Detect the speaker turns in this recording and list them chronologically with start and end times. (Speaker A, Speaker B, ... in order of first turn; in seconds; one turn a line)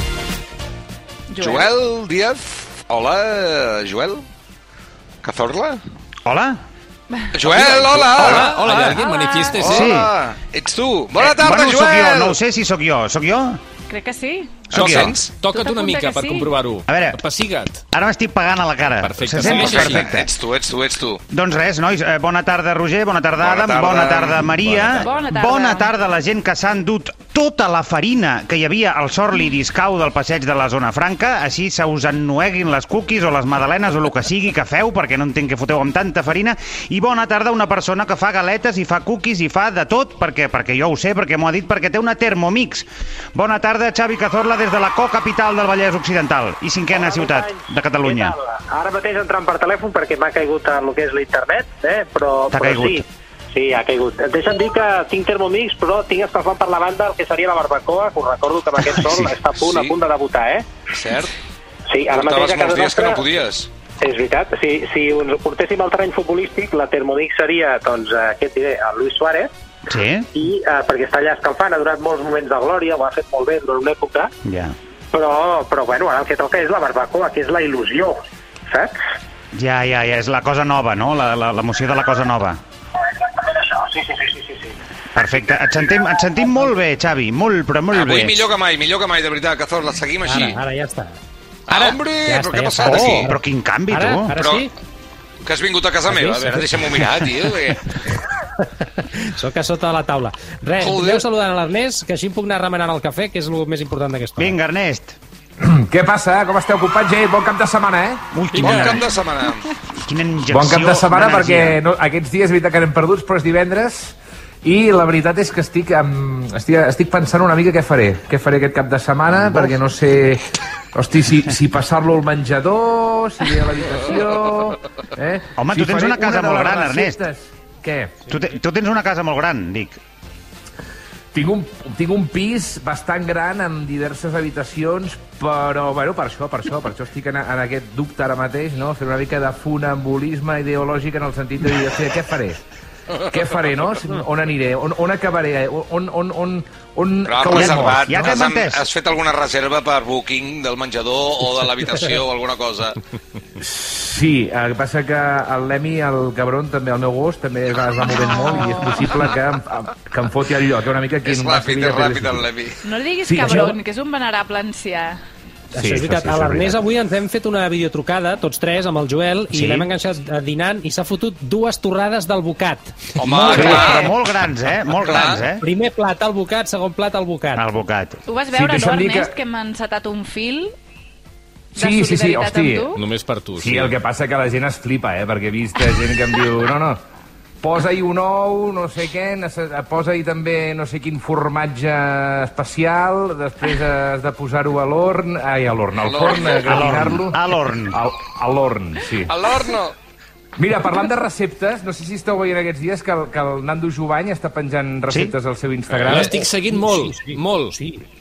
Speaker A: 1.3-1.7
Speaker B: 1.4-4.2
Speaker B: 5.2-5.8
Speaker C: 6.2-6.6
Speaker B: 7.3-9.0
Speaker D: 7.7-9.9
Speaker A: 8.2-9.6
Speaker B: 9.6-12.3
Speaker C: 9.6-10.1
Speaker C: 11.2-13.6
Speaker A: 13.9-14.7
Speaker D: 14.7-17.8
Speaker C: 14.7-15.2
Speaker B: 14.8-15.1
Speaker A: 15.5-16.5
Speaker C: 16.9-17.2
Speaker C: 17.9-20.3
Speaker D: 19.0-20.1
Speaker B: 19.4-21.2
Speaker C: 21.3-48.4
Speaker B: 23.4-24.5
Speaker A: 25.0-25.9
Speaker E: 46.9-60.7
Speaker C: 52.5-53.0
Speaker B: 59.5-60.0
Speaker B: 60.9-61.3
Speaker E: 61.9-63.2
Speaker B: 62.1-63.7
Speaker E: 64.0-69.5
Speaker C: 69.9-70.3
Speaker E: 70.3-74.3
Speaker C: 74.5-74.8
Speaker E: 75.1-78.9
Speaker C: 79.5-82.6
Speaker E: 83.3-84.7
Speaker C: 85.1-88.4
Speaker B: 87.9-90.5
Speaker F: 90.3-91.2
Speaker B: 91.7-93.3
Speaker F: 91.7-93.3
Speaker C: 92.8-94.3
Speaker F: 93.9-94.7
Speaker B: 94.3-94.7
Speaker B: 95.5-97.8
Speaker F: 96.1-96.6
Speaker F: 98.6-104.5
Speaker B: 100.8-101.2
Speaker C: 104.4-105.2
Speaker G: 105.6-108.9
Speaker C: 108.3-109.0
Speaker B: 108.5-109.7
Speaker C: 110.0-111.8
Speaker G: 110.5-120.4
Speaker C: 119.3-119.8
Speaker G: 120.9-128.2
Speaker C: 125.6-127.2
Speaker C: 128.3-130.0
Speaker G: 131.3-142.6
Speaker G: 143.3-148.3
Speaker B: 147.3-152.9
Speaker C: 147.5-148.8
Speaker G: 153.6-162.4
Speaker A: 158.5-158.8
Speaker B: 161.2-162.8
Speaker A: 162.8-165.2
Speaker G: 163.2-163.8
Speaker G: 165.8-166.8
Speaker F: 165.8-174.1
Speaker B: 173.2-174.1
Speaker C: 173.2-175.6
Speaker G: 173.5-173.9
Speaker B: 175.0-175.4
Speaker F: 175.6-177.7
Speaker C: 177.6-178.2
Speaker A: 178.3-180.7
Speaker G: 178.5-179.3
Speaker G: 181.8-182.9
Speaker A: 181.8-183.0
Speaker D: 182.9-183.9
Speaker G: 183.6-187.0
Speaker G: 187.6-199.6
Speaker B: 196.0-196.7
Speaker C: 196.6-198.0
Speaker B: 199.3-199.9
Speaker G: 200.6-206.4
Speaker D: 205.9-207.8
Speaker F: 206.1-208.0